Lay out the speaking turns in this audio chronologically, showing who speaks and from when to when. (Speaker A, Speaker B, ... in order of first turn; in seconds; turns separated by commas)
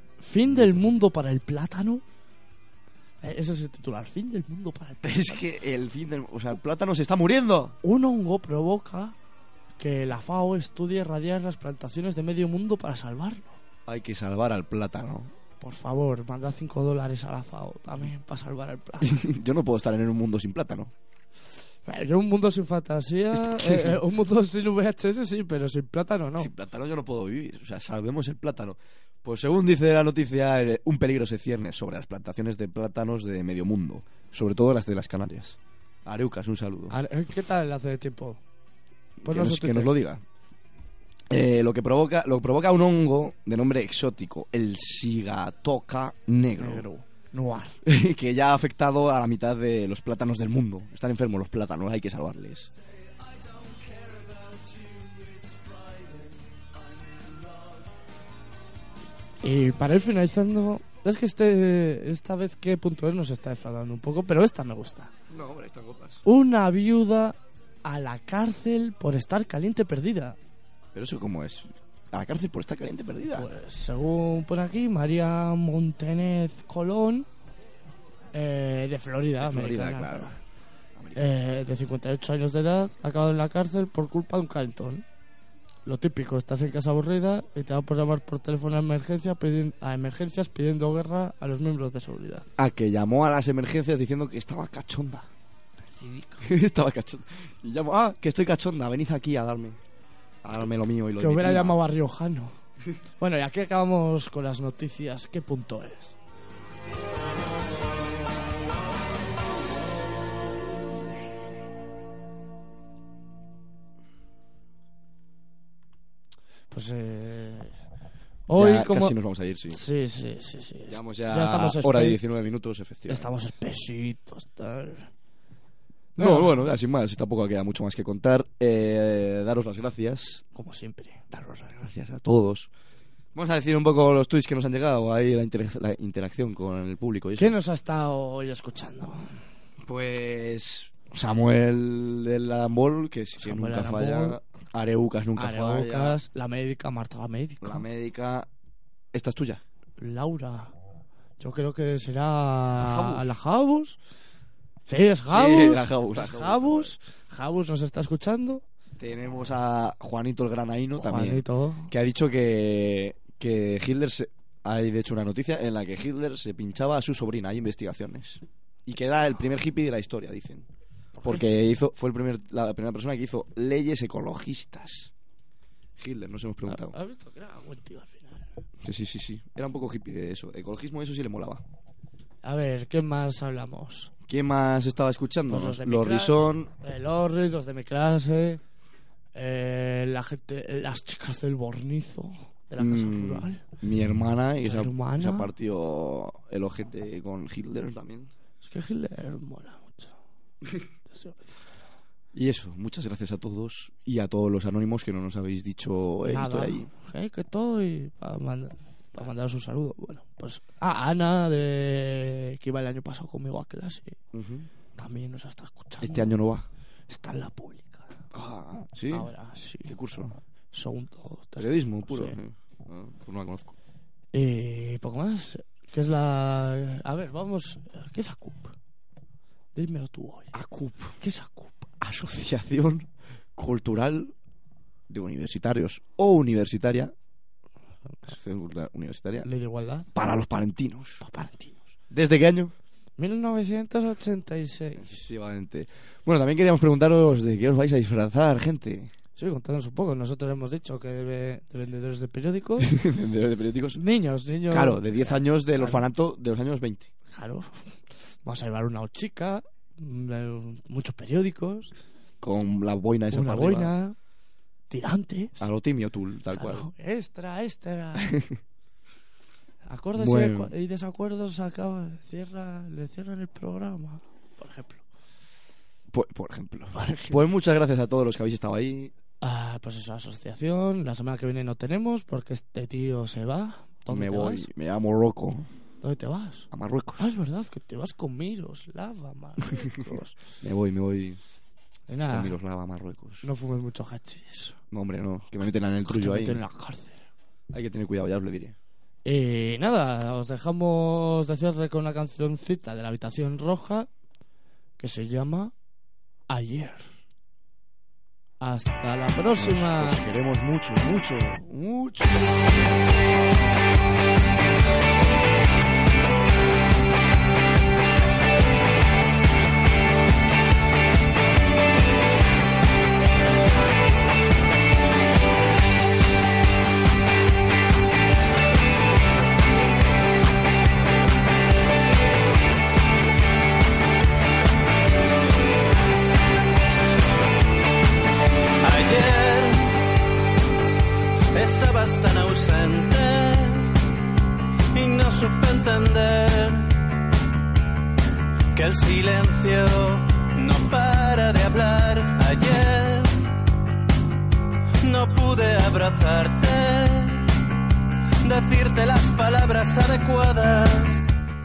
Speaker A: 0.2-2.0, Speaker B: 0.5-0.8, Speaker A: 3.2-5.4, Speaker B: 5.1-7.8, Speaker A: 7.8-9.2, Speaker A: 9.8-13.6, Speaker B: 13.9-15.3, Speaker A: 15.6-19.2, Speaker B: 19.1-20.9, Speaker A: 21.9-26.5, Speaker B: 23.5-23.9, Speaker B: 26.4-35.5, Speaker B: 36.1-36.9, Speaker A: 36.9-38.4, Speaker A: 39.2-39.9, Speaker B: 39.2-40.2, Speaker B: 41.3-46.9, Speaker A: 46.6-47.8, Speaker B: 47.9-52.7, Speaker A: 59.4-65.1, Speaker B: 65.3-66.2, Speaker A: 66.2-70.4, Speaker B: 71.0-73.5, Speaker A: 73.3-77.3, Speaker A: 78.3-80.4, Speaker B: 79.4-80.3, Speaker A: 81.2-85.0, Speaker A: 85.9-92.5, Speaker B: 92.6-95.3, Speaker A: 95.8-96.5, Speaker B: 96.4-99.8, Speaker B: 100.5-101.8, Speaker A: 101.2-102.6, Speaker A: 103.2-106.2, Speaker A: 116.7-117.7, Speaker A: 118.5-119.2, Speaker B: 118.5-119.7, Speaker A: 119.7-122.2, Speaker B: 121.0-123.3, Speaker A: 123.1-125.1, Speaker A: 126.2-126.7, Speaker B: 126.2-130.4, Speaker A: 130.5-131.8, Speaker B: 131.9-132.7, Speaker B: 133.3-137.5, Speaker A: 137.4-139.4, Speaker B: 139.9-146.2, Speaker A: 143.4-144.4, Speaker A: 145.4-147.8, Speaker B: 147.6-148.5, Speaker B: 149.1-149.6, Speaker A: 150.0-150.7, Speaker A: 151.4-154.0, Speaker B: 152.8-153.3, Speaker A: 154.9-158.6, Speaker B: 155.3-156.9, Speaker B: 159.0-161.4, Speaker A: 161.0-161.9, Speaker B: 161.9-170.7, Speaker A: 171.2-171.6, Speaker B: 171.2-175.1, Speaker B: 176.0-176.9, Speaker A: 176.9-178.6, Speaker B: 178.8-181.6, Speaker A: 182.4-184.1, Speaker B: 184.3-186.7, Speaker A: 185.5-188.6, Speaker A: 189.3-193.7, Speaker B: 192.8-198.3, Speaker A: 194.7-195.5, Speaker A: 198.6-200.2, Speaker A: 201.1-201.6, Speaker B: 202.3-206.9, Speaker A: 206.2-214.2, Speaker B: 214.3-214.7, Speaker A: 214.9-216.4, Speaker B: 216.0-216.7, Speaker A: 217.1-218.1, Speaker B: 218.3-219.3, Speaker A: 219.1-220.0, Speaker B: 219.9-220.3, Speaker A: 220.7-222.4, Speaker B: 221.6-223.7, Speaker A: 224.3-228.8, Speaker A: 229.8-230.5, Speaker B: 230.5-231.1, Speaker A: 231.2-231.9, Speaker B: 232.0-233.1, Speaker B: 233.6-234.3, Speaker B: 235.1-237.1, Speaker B: 238.3-239.5, Speaker A: 239.4-240.1, Speaker B: 240.2-241.2, Speaker A: 241.2-241.9, Speaker B: 242.1-242.7, Speaker A: 243.2-245.2, Speaker B: 245.1-249.1, Speaker A: 249.4-252.9, Speaker B: 252.9-254.0, Speaker A: 253.9-256.1, Speaker B: 254.7-257.1, Speaker A: 257.3-261.9, Speaker B: 262.4-263.9, Speaker A: 263.3-264.2, Speaker A: 264.9-265.7, Speaker B: 265.6-266.8, Speaker A: 266.5-268.4, Speaker A: 269.9-275.0, Speaker B: 270.2-270.7, Speaker B: 276.1-279.1, Speaker A: 276.9-277.4, Speaker A: 279.4-284.7, Speaker B: 284.1-285.7, Speaker A: 286.0-286.7, Speaker B: 286.7-287.2, Speaker A: 287.2-290.4, Speaker B: 290.6-291.4, Speaker A: 292.1-292.6, Speaker B: 292.3-293.4, Speaker A: 293.4-294.8, Speaker B: 294.9-296.6, Speaker A: 296.1-297.2, Speaker B: 297.7-298.8, Speaker A: 299.2-304.1, Speaker A: 305.0-305.7, Speaker A: 306.5-307.2, Speaker A: 308.6-310.2, Speaker B: 309.6-312.6, Speaker C: 338.8-340.0, Speaker C: 341.5-343.9, Speaker C: 344.9-346.9, Speaker C: 348.8-353.4, Speaker C: 355.0-357.5, Speaker C: 358.4-361.3